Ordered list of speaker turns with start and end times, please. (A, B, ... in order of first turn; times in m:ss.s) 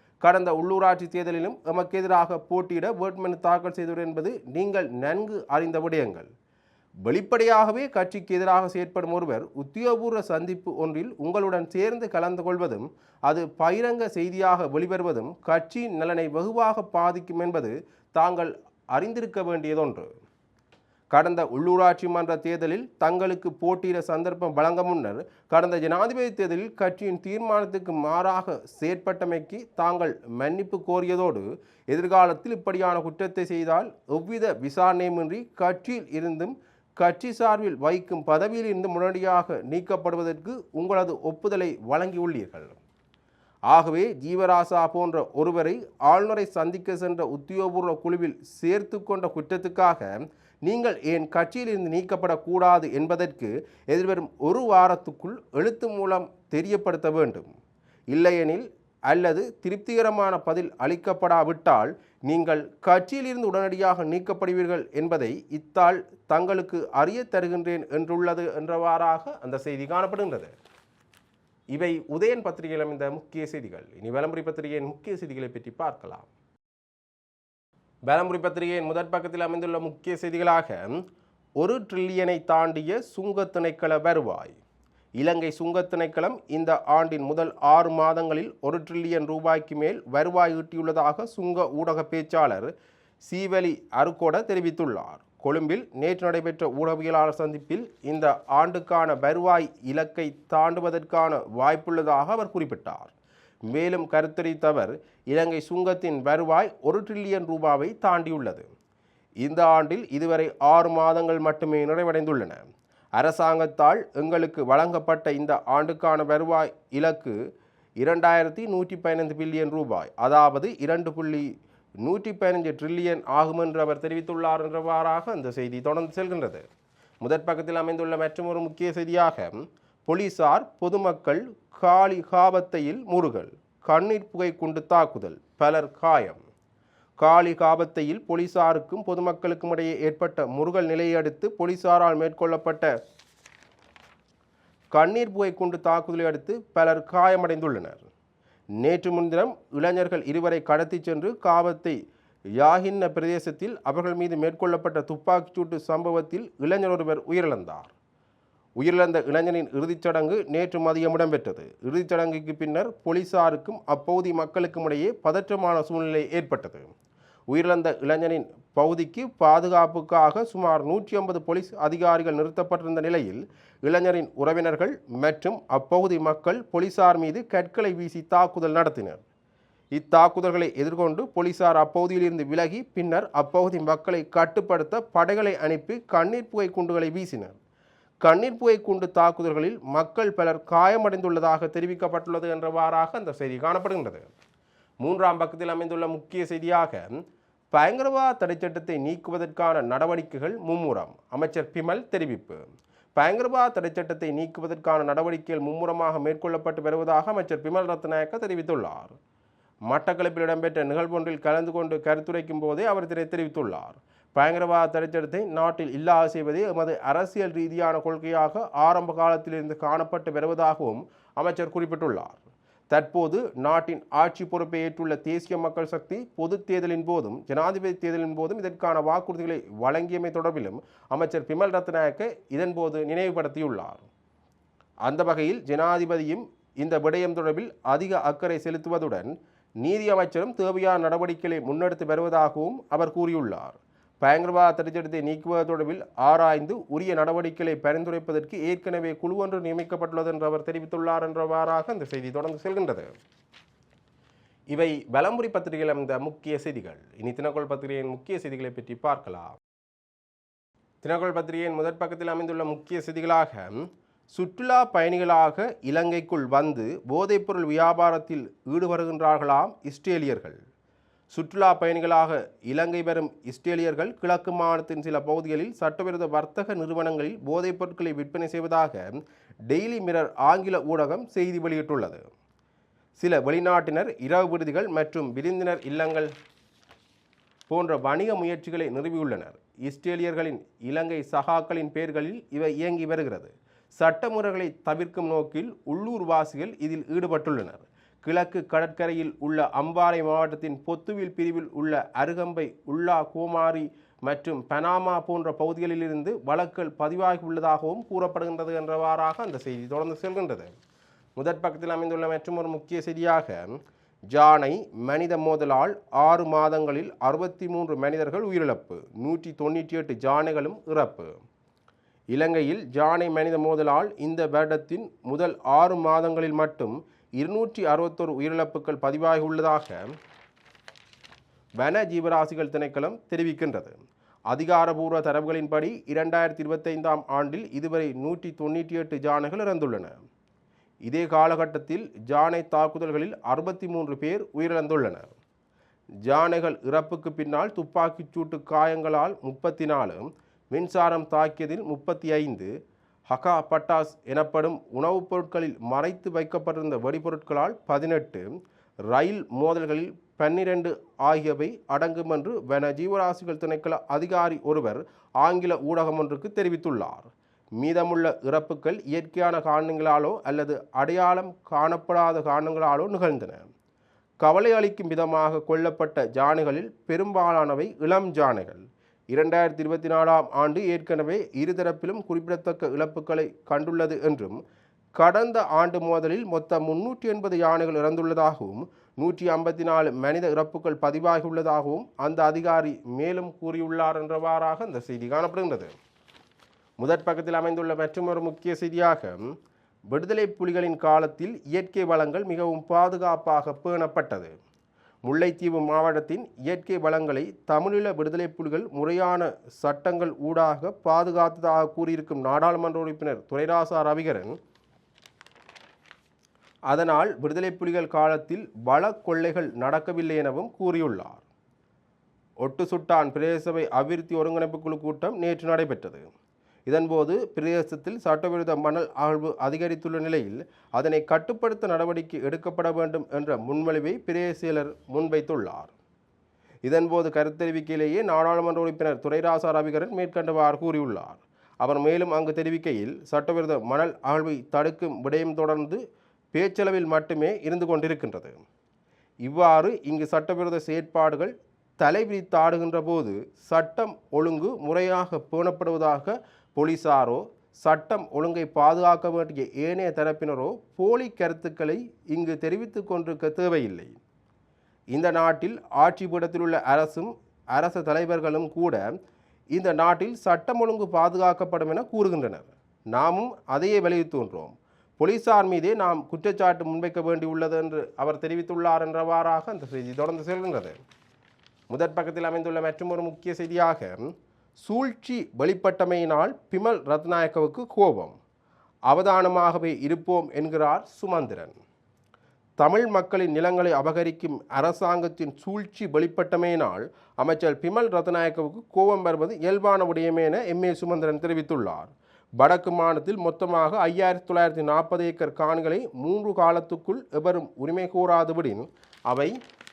0:00.2-0:06.3 A
0:07.0-0:20.1 A
0:21.1-0:42.8 A
0:43.7-0:50.1 A
0:50.6-0:57.5 A
0:58.1-1:10.5 A
1:11.7-1:16.3 A
1:18.1-1:20.8 A
1:21.6-1:24.6 A
1:25.2-1:32.7 A
1:33.2-1:43.1 A
1:43.7-1:48.7 A
1:49.4-1:52.6 A
1:53.2-1:57.4 A
1:58.0-2:01.5 A
2:02.0-2:06.6 A
2:07.2-2:16.4 A
2:17.2-2:22.9 A
2:24.9-2:28.1 A
2:28.8-2:32.0 A
2:32.6-2:37.9 A
2:38.8-2:46.9 A
2:47.5-2:59.2 A
2:59.9-3:07.6 A
3:08.2-3:14.3 A
3:15.0-3:17.0 A
3:17.7-3:22.6 A
3:23.2-3:29.1 A
3:29.9-3:42.4 A
3:42.9-3:54.1 A
3:55.1-3:59.3 A
3:59.8-4:13.1 A
4:14.7-4:19.6 A
4:21.0-4:30.6 A
4:31.3-4:39.1 A
4:39.7-4:42.2 A
4:43.2-4:46.3 A
4:47.7-5:10.7 A
5:11.4-5:13.8 A
5:14.3-5:21.3 A
5:22.3-5:30.1 A
5:31.8-5:34.0 A
5:34.5-5:40.1 A
5:41.1-5:45.3 A
5:46.2-5:52.7 A
5:53.3-5:58.4 A
5:59.1-6:13.6 A
6:14.4-6:24.6 A
6:25.2-6:35.9 A
6:37.0-6:39.4 A
6:40.1-6:44.5 A
6:45.2-6:54.6 A
6:56.9-7:01.4 A
7:02.6-7:06.2 A
7:06.9-7:15.9 A
7:16.8-7:26.0 A
7:26.5-7:28.6 A
7:29.4-7:44.2 A
7:45.1-7:49.0 A
7:49.7-8:01.0 A
8:01.9-8:08.4 A
8:09.1-8:11.8 A
8:12.8-8:29.6 A